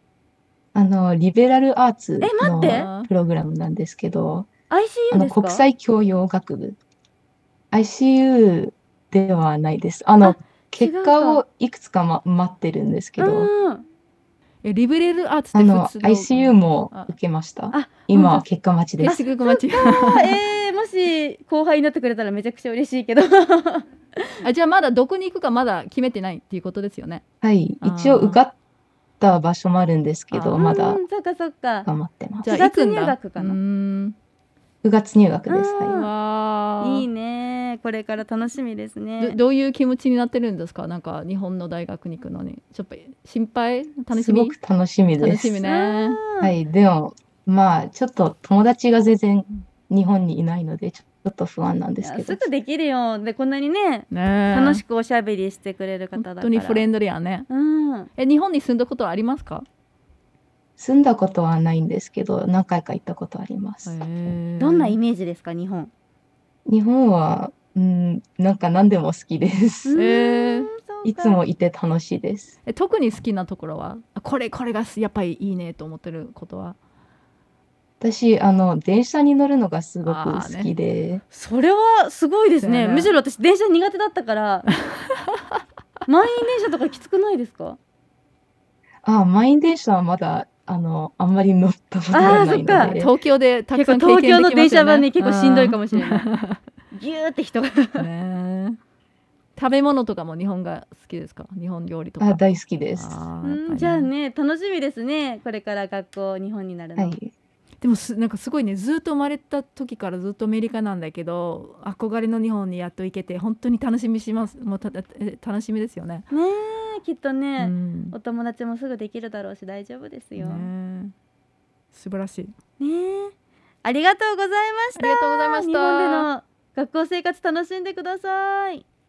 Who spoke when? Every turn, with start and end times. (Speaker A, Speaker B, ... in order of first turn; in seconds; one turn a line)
Speaker A: 0.7-4.5
Speaker B: 2.2-2.9
Speaker C: 2.5-3.1
Speaker B: 4.7-5.7
Speaker A: 5.1-6.8
Speaker A: 7.7-13.5
Speaker B: 10.2-11.4
Speaker B: 13.2-13.8
Speaker C: 14.6-17.1
Speaker A: 15.5-19.2
Speaker B: 17.7-18.3
Speaker C: 18.1-18.4
Speaker C: 19.0-20.4
Speaker B: 19.0-24.3
Speaker C: 24.4-27.2
Speaker A: 27.4-28.5
Speaker C: 27.8-28.4
Speaker A: 29.2-31.0
Speaker C: 30.3-30.7
Speaker B: 30.5-31.9
Speaker A: 31.9-32.6
Speaker C: 32.4-34.1
Speaker B: 32.5-33.6
Speaker A: 34.8-36.0
Speaker B: 35.5-36.1
Speaker C: 35.9-37.1
Speaker B: 36.8-39.4
Speaker C: 39.2-44.5
Speaker A: 44.1-45.6
Speaker C: 45.2-46.2
Speaker B: 45.6-46.5
Speaker A: 46.4-52.5
Speaker B: 52.0-56.9
Speaker C: 54.1-54.8
Speaker C: 56.1-57.5
Speaker B: 57.5-58.1
Speaker C: 58.2-59.6
Speaker A: 60.8-64.0
Speaker C: 63.9-65.0
Speaker B: 64.6-65.9
Speaker A: 66.7-70.0
Speaker B: 69.8-71.4
Speaker C: 69.9-70.7
Speaker A: 71.0-72.5
Speaker C: 72.7-76.8
Speaker A: 78.0-81.2
Speaker C: 80.0-80.7
Speaker B: 81.3-84.7
Speaker C: 82.6-83.1
Speaker C: 84.9-85.4
Speaker B: 86.1-87.8
Speaker A: 89.0-93.1
Speaker B: 92.1-93.0
Speaker C: 92.8-96.6
Speaker B: 93.7-96.3
Speaker B: 96.9-98.1
Speaker C: 98.0-98.8
Speaker C: 99.5-102.4
Speaker A: 102.2-103.2
Speaker C: 102.9-104.1
Speaker B: 103.4-107.2
Speaker A: 107.0-107.3
Speaker C: 107.8-116.2
Speaker B: 116.3-120.7
Speaker C: 117.6-118.2
Speaker C: 120.3-121.1
Speaker C: 121.9-122.5
Speaker B: 122.8-123.3
Speaker B: 123.8-128.8
Speaker C: 124.9-126.3